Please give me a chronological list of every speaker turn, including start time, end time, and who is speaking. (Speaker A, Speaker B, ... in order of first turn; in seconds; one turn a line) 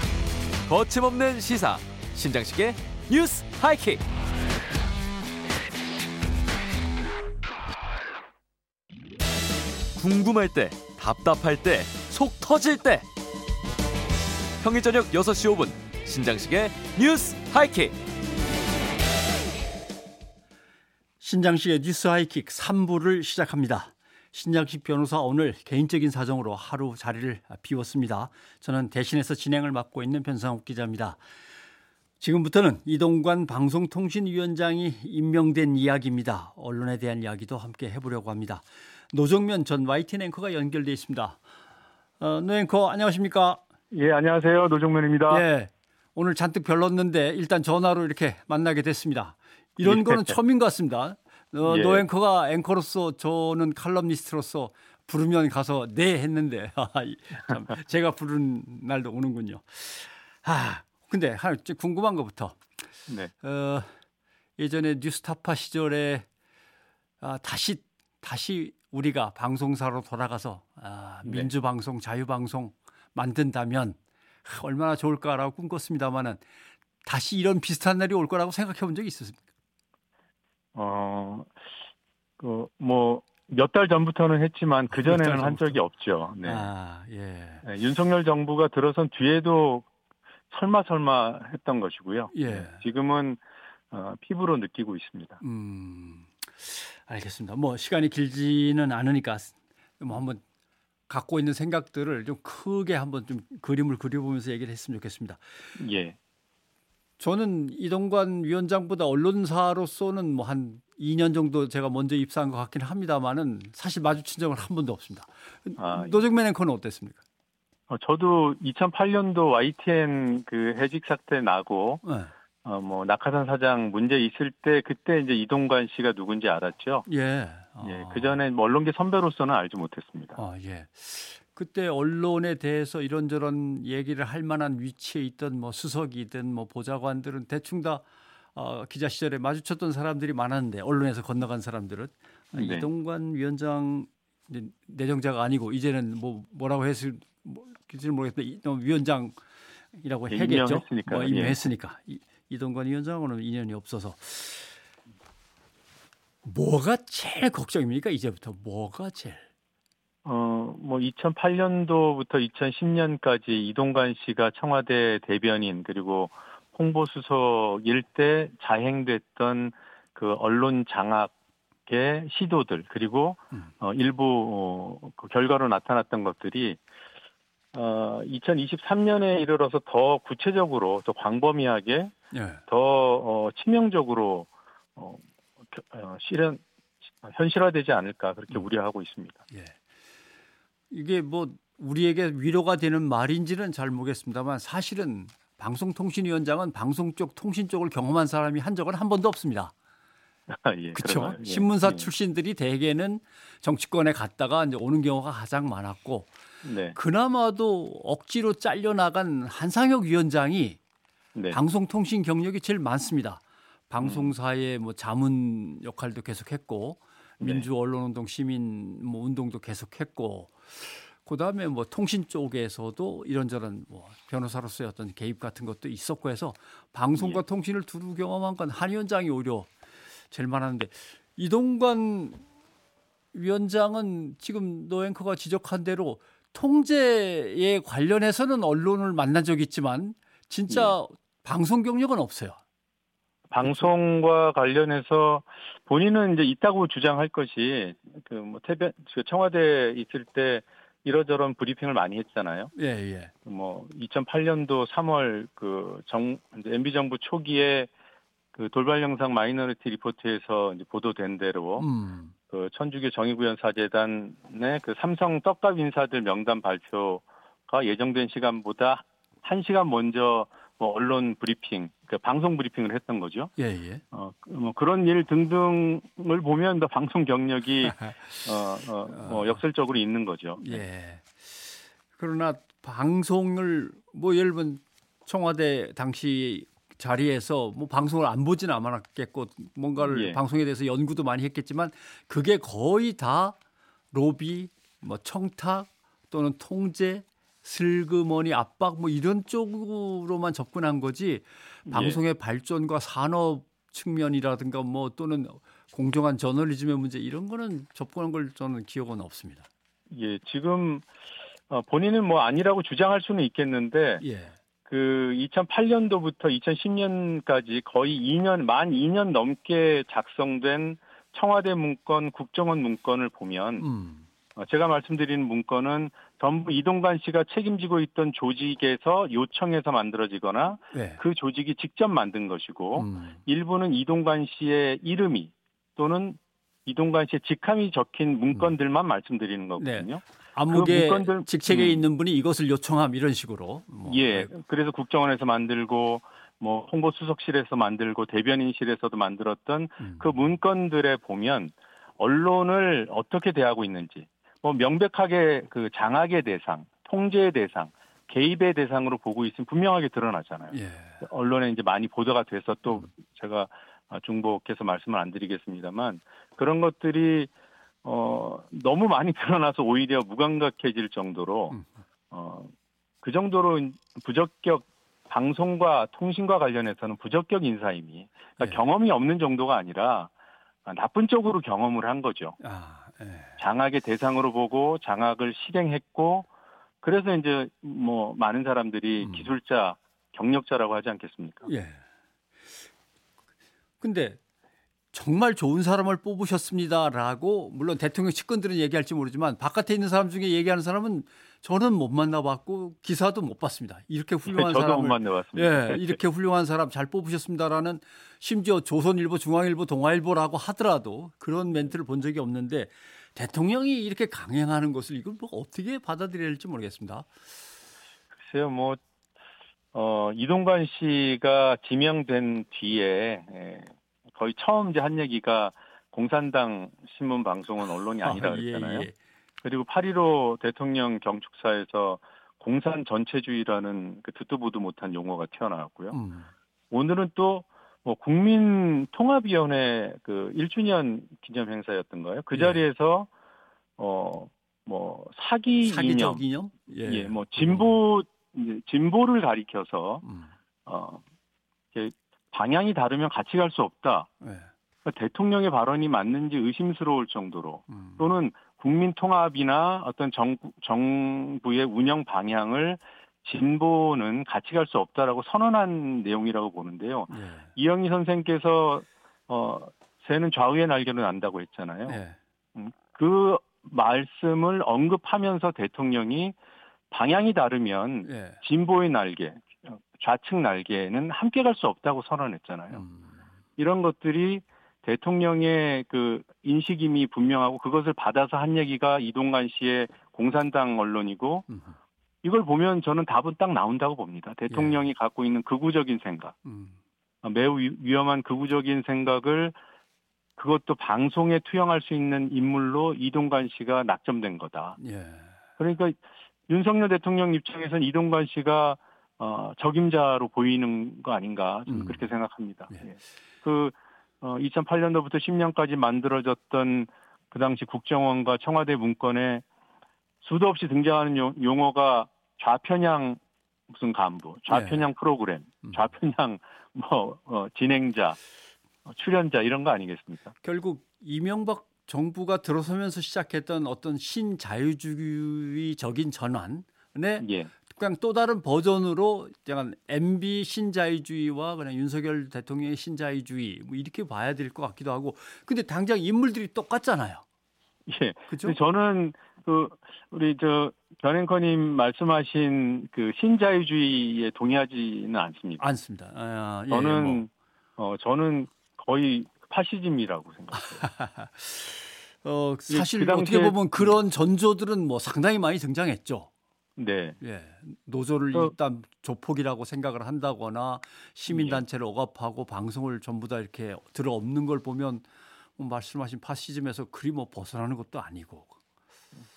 Speaker A: 0.7-4.0
Speaker A: 9.9-13.1
Speaker A: 14.6-18.0
Speaker B: 21.2-31.2
Speaker B: 32.2-41.4
Speaker B: 42.2-43.6
Speaker C: 43.9-45.5
Speaker B: 45.3-62.6
Speaker C: 49.8-50.3
Speaker C: 51.7-52.0
Speaker B: 63.4-63.9
Speaker B: 64.6-66.3
Speaker B: 67.2-76.4
Speaker B: 77.0-79.4
Speaker C: 80.8-81.5
Speaker C: 82.4-86.7
Speaker B: 84.9-85.8
Speaker B: 86.4-87.7
Speaker C: 87.7-89.9
Speaker C: 90.5-95.4
Speaker B: 92.3-92.8
Speaker B: 95.4-100.4
Speaker B: 101.1-105.8
Speaker C: 105.8-106.2
Speaker B: 107.2-117.2
Speaker C: 115.8-116.2
Speaker C: 117.9-122.0
Speaker B: 122.0-122.3
Speaker C: 122.6-127.1
Speaker B: 127.1-128.4
Speaker C: 127.8-130.4
Speaker B: 130.4-149.4
Speaker C: 142.5-142.9
Speaker B: 150.0-154.8
Speaker C: 150.3-151.6
Speaker B: 156.4-159.4
Speaker C: 160.2-171.3
Speaker C: 171.9-176.8
Speaker C: 177.7-182.2
Speaker B: 182.3-182.6
Speaker C: 182.7-186.6
Speaker C: 187.2-189.4
Speaker B: 189.5-189.8
Speaker B: 190.9-199.7
Speaker C: 200.5-202.1
Speaker B: 200.9-206.3
Speaker C: 206.6-207.0
Speaker B: 206.9-210.8
Speaker B: 211.5-229.7
Speaker C: 214.0-214.3
Speaker C: 217.4-217.7
Speaker C: 227.2-227.4
Speaker B: 230.3-232.4
Speaker B: 233.3-242.6
Speaker C: 240.7-240.9
Speaker C: 243.5-252.7
Speaker B: 243.6-243.9
Speaker B: 252.8-253.3
Speaker C: 253.5-257.9
Speaker C: 258.6-261.9
Speaker B: 261.8-262.3
Speaker C: 262.5-273.5
Speaker B: 273.6-274.0
Speaker C: 274.1-280.8
Speaker B: 277.9-278.3
Speaker B: 279.1-279.6
Speaker B: 280.6-293.6
Speaker C: 290.0-290.4
Speaker B: 294.1-309.7
Speaker C: 301.9-302.2
Speaker C: 310.1-311.1
Speaker C: 311.7-314.2
Speaker B: 314.2-314.5
Speaker C: 314.9-323.9
Speaker B: 323.8-324.2
Speaker C: 324.6-342.0
Speaker B: 330.9-331.2
Speaker B: 332.9-333.4
Speaker B: 339.8-344.5
Speaker C: 344.1-367.5
Speaker B: 350.0-350.4
Speaker B: 360.7-361.2
Speaker C: 368.0-371.8
Speaker C: 372.3-372.7
Speaker C: 373.2-380.3
Speaker C: 380.9-382.6
Speaker B: 382.6-383.6
Speaker C: 383.6-386.5
Speaker C: 387.0-391.7
Speaker B: 389.2-389.5
Speaker B: 391.7-392.0
Speaker B: 394.0-394.4
Speaker B: 395.1-417.3
Speaker C: 404.5-406.1
Speaker C: 418.4-419.0
Speaker C: 419.9-429.1
Speaker B: 428.2-429.2
Speaker C: 429.6-436.2
Speaker B: 436.1-436.5
Speaker C: 436.9-443.3
Speaker B: 442.5-442.8
Speaker C: 444.0-446.4
Speaker B: 445.8-448.0
Speaker C: 447.1-450.2
Speaker B: 450.2-450.5
Speaker C: 450.9-451.2
Speaker C: 451.9-454.3
Speaker B: 454.4-454.7
Speaker C: 455.1-472.2
Speaker B: 457.9-458.4
Speaker B: 467.3-467.7
Speaker B: 472.1-472.4
Speaker C: 472.8-476.6
Speaker C: 477.1-483.0
Speaker B: 478.2-478.6
Speaker B: 482.9-483.4
Speaker C: 483.8-491.7
Speaker B: 491.7-491.9
Speaker C: 492.4-496.5
Speaker B: 494.7-495.0
Speaker B: 496.6-497.0
Speaker C: 497.4-499.8
Speaker C: 500.6-505.0
Speaker B: 505.0-505.6
Speaker C: 505.8-506.2
Speaker C: 506.7-519.6
Speaker B: 511.9-512.3
Speaker C: 520.4-523.4
Speaker C: 523.9-528.4
Speaker B: 524.7-525.1
Speaker C: 529.1-530.5
Speaker B: 530.6-547.4
Speaker C: 537.4-537.7
Speaker C: 548.1-555.8
Speaker B: 548.5-548.8
Speaker B: 555.8-557.4
Speaker C: 556.9-560.9
Speaker B: 560.7-566.5
Speaker C: 562.9-564.1
Speaker C: 567.0-567.4
Speaker B: 567.4-575.3
Speaker C: 571.5-571.8
Speaker B: 575.8-578.8